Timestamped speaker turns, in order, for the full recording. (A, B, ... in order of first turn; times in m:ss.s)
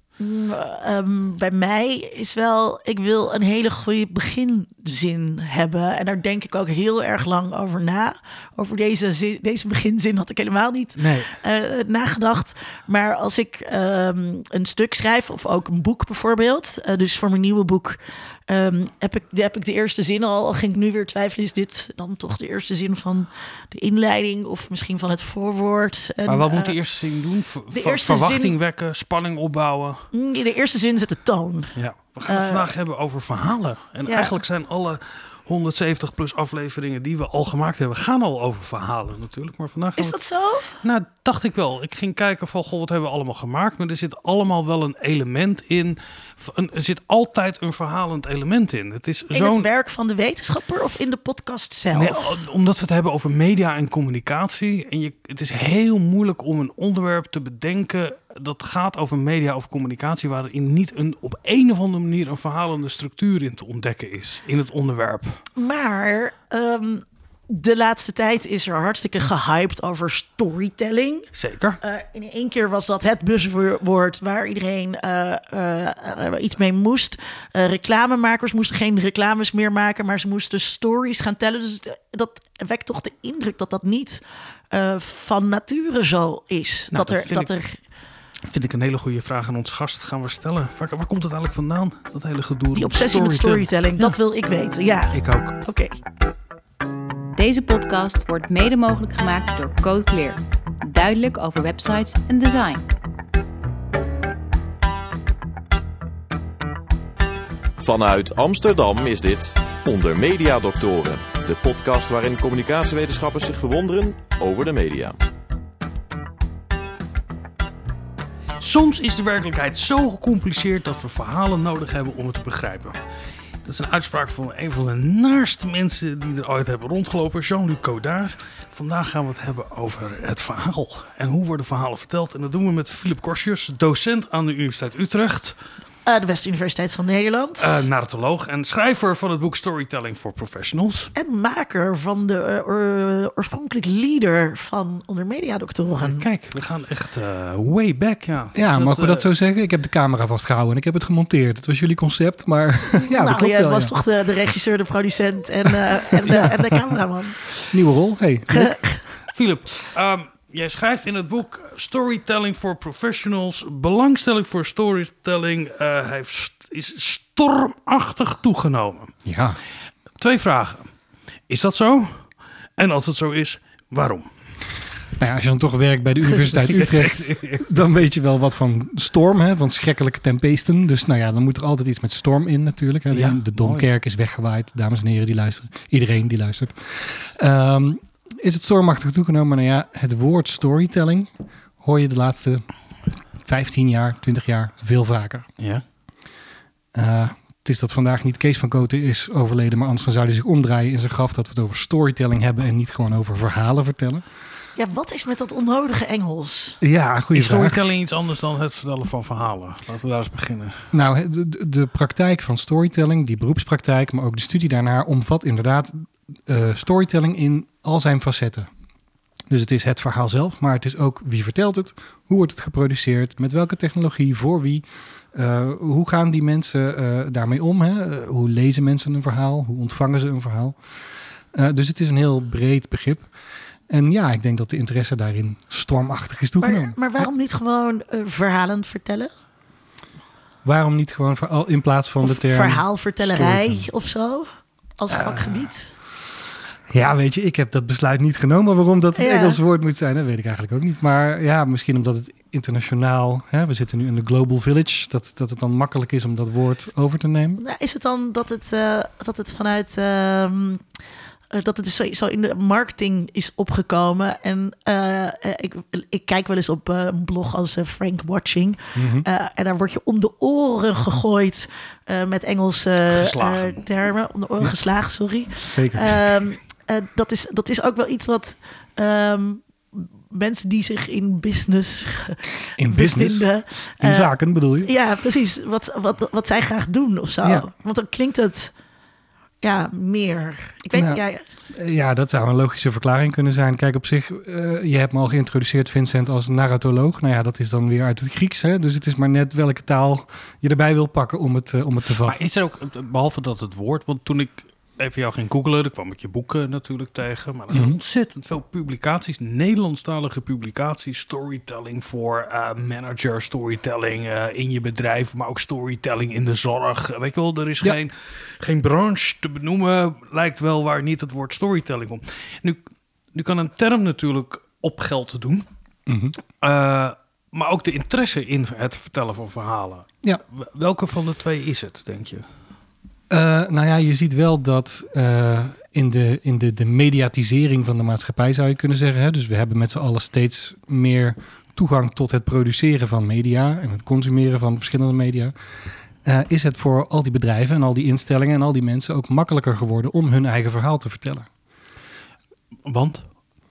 0:00.2-0:26.7 A
0:11.0-0:11.3 B
0:26.3-0:30.1 B
0:27.7-0:28.5 A
0:30.1-0:31.7 A
0:31.7-0:40.2 B
0:32.2-0:32.7 A
0:34.0-0:34.4 A
0:40.0-0:40.8 A
0:40.8-0:49.7 B
0:49.3-0:52.4 A
0:51.9-1:05.4 B
1:05.6-1:11.3 A
1:11.3-1:11.8 B
1:11.8-1:27.8 A
1:26.9-1:27.5 B
1:28.5-1:34.1 B
1:32.7-1:36.0 A
1:35.1-1:35.6 B
1:37.3-1:42.8 C
1:47.8-1:55.2 D
1:58.6-2:03.0 B
2:03.6-2:15.6 B
2:16.0-2:17.9 A
2:17.6-2:21.1 B
2:21.1-2:26.2 A
2:26.0-2:29.3 B
2:28.5-2:33.9 E
2:33.0-2:37.5 A
2:37.7-2:38.8 E
2:38.5-2:39.0 A
2:39.3-2:49.2 B
2:49.2-2:49.6 E
2:50.2-2:50.9 B
2:51.5-2:54.3 B
2:55.2-3:12.6 E
2:56.4-2:57.6 B
3:03.1-3:03.9 B
3:13.4-3:15.5 E
3:16.9-3:24.2 E
3:24.8-3:26.8 A
3:26.8-3:27.8 E
3:27.3-3:30.8 B
3:30.9-3:38.7 E
3:39.5-3:50.8 E
3:51.5-3:53.3 E
3:53.9-3:57.0 E
3:56.6-3:59.3 A
4:00.6-4:03.8 E
4:02.2-4:05.9 A
4:06.9-4:17.6 E
4:09.1-4:09.6 A
4:17.6-4:20.8 A
4:21.5-4:44.3 A
4:29.0-4:29.3 E
4:33.1-4:33.8 B
4:35.6-4:36.3 E
4:42.8-4:43.5 E
4:44.0-4:44.9 E
4:44.8-4:48.7 A
4:49.6-4:51.4 A
4:50.9-4:51.2 E
4:51.7-5:02.4 E
5:02.2-5:22.8 B
5:07.7-5:08.0 E
5:23.3-5:25.7 B
5:26.1-5:26.4 E
5:26.6-5:32.4 B
5:33.3-5:45.5 E
5:46.2-5:51.5 E
5:52.8-5:53.2 B